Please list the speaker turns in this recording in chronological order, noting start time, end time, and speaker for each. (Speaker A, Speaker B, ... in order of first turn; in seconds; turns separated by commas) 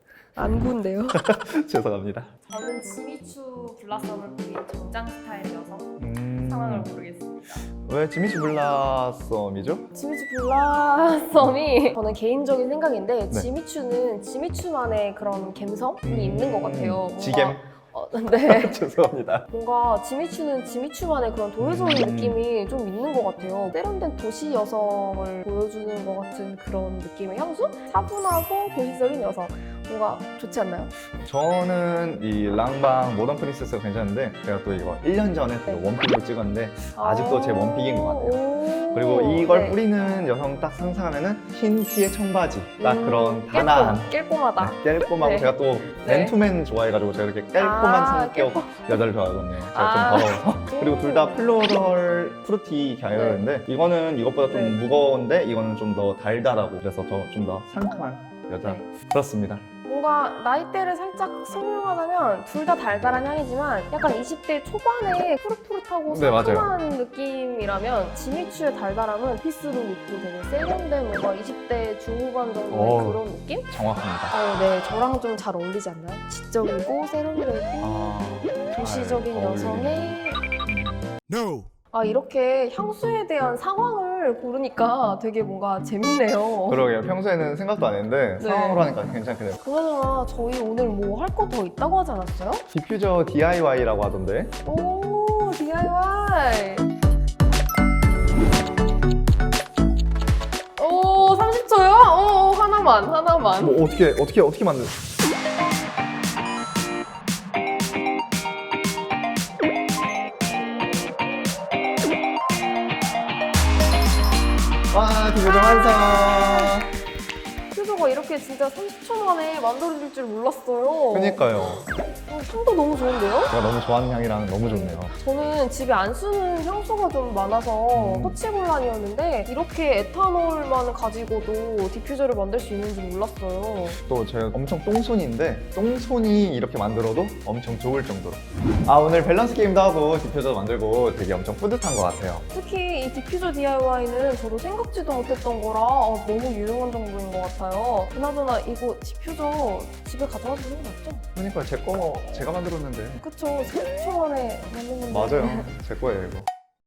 Speaker A: 0.4-1.2, Speaker B: 1.1-2.3, Speaker A: 2.5-7.6, Speaker B: 6.0-6.9, Speaker B: 7.8-9.9, Speaker A: 9.9-18.8, Speaker B: 16.0-17.6, Speaker B: 18.4-19.5, Speaker A: 19.5-30.9, Speaker B: 21.6-22.4, Speaker B: 31.2-59.6, Speaker A: 37.0-40.0, Speaker A: 42.8-46.4, Speaker A: 47.6-49.0, Speaker A: 49.7-51.8, Speaker A: 53.1-53.4, Speaker A: 54.5-54.8, Speaker A: 58.6-58.9, Speaker A: 59.9-73.7, Speaker B: 66.1-66.7, Speaker B: 72.7-74.3, Speaker A: 74.3-80.4, Speaker B: 77.8-81.1, Speaker A: 81.9-86.9, Speaker B: 86.7-89.6, Speaker A: 88.4-88.9, Speaker A: 89.6-92.6, Speaker B: 92.7-94.5, Speaker A: 94.7-96.9, Speaker A: 100.8-103.8, Speaker B: 103.6-104.9, Speaker B: 114.9-116.9, Speaker A: 117.7-123.5, Speaker B: 121.1-121.8, Speaker B: 123.5-125.1, Speaker A: 124.6-134.0, Speaker B: 127.9-128.4, Speaker B: 134.0-142.4, Speaker A: 142.5-151.2, Speaker B: 151.4-153.2, Speaker A: 153.2-155.7, Speaker B: 155.1-156.5